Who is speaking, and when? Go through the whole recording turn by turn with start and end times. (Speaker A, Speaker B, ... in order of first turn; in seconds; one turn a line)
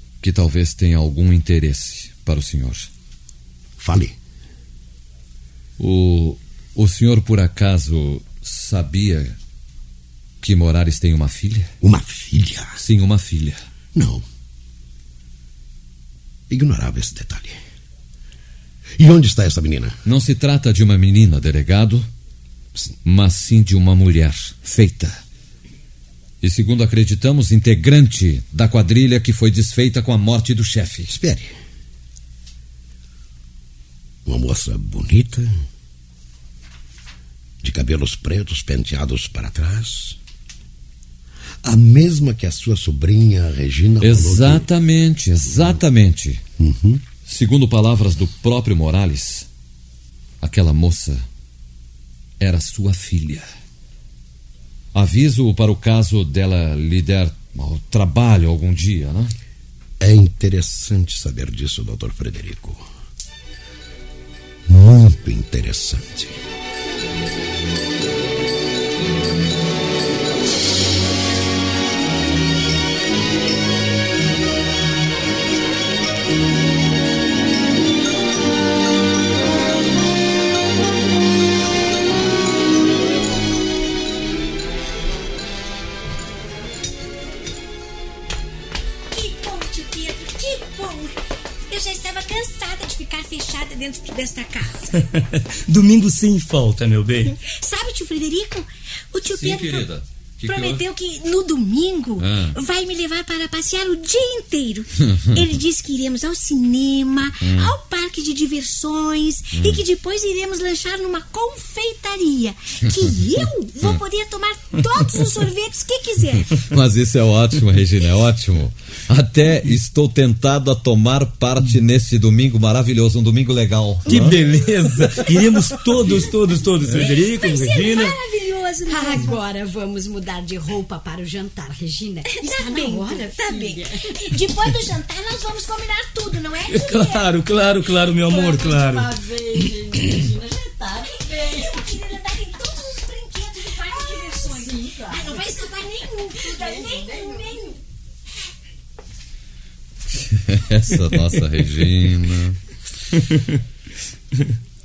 Speaker A: 0.2-2.9
Speaker B: 3.8-4.2
Speaker A: 5.8-9.4
Speaker A: 10.4-11.7
Speaker B: 11.8-12.8
Speaker A: 12.8-13.6
Speaker B: 13.9-14.2
Speaker B: 16.5-17.6
Speaker B: 19.0-20.0
Speaker A: 20.1-22.1
Speaker A: 23.1-25.2
Speaker A: 26.4-31.1
Speaker B: 31.1-31.6
Speaker B: 34.3-35.5
Speaker B: 37.6-40.2
Speaker B: 41.6-44.7
Speaker A: 44.0-46.4
Speaker B: 45.5-45.8
Speaker B: 46.6-47.0
Speaker A: 47.3-49.5
Speaker A: 50.4-51.3
Speaker A: 52.4-53.5
Speaker A: 54.9-59.3
Speaker B: 60.0-62.9
Speaker B: 64.7-66.4
Speaker C: 89.1-91.2
Speaker C: 91.7-95.0
Speaker D: 95.0-97.3
Speaker C: 97.4-99.9
Speaker A: 99.3-100.9
Speaker C: 100.4-116.5
Speaker A: 102.2-102.6
Speaker A: 107.4-107.7
Speaker A: 109.5-109.8
Speaker A: 116.5-124.4
Speaker D: 124.1-128.2
Speaker C: 127.0-129.4
Speaker E: 128.9-134.2
Speaker C: 132.2-137.3
Speaker D: 136.7-139.1
Speaker E: 138.0-141.9
Speaker C: 141.0-147.8
Speaker E: 143.9-145.7
Speaker E: 146.3-147.7
Speaker A: 150.2-152.6
Speaker D: 153.2-153.6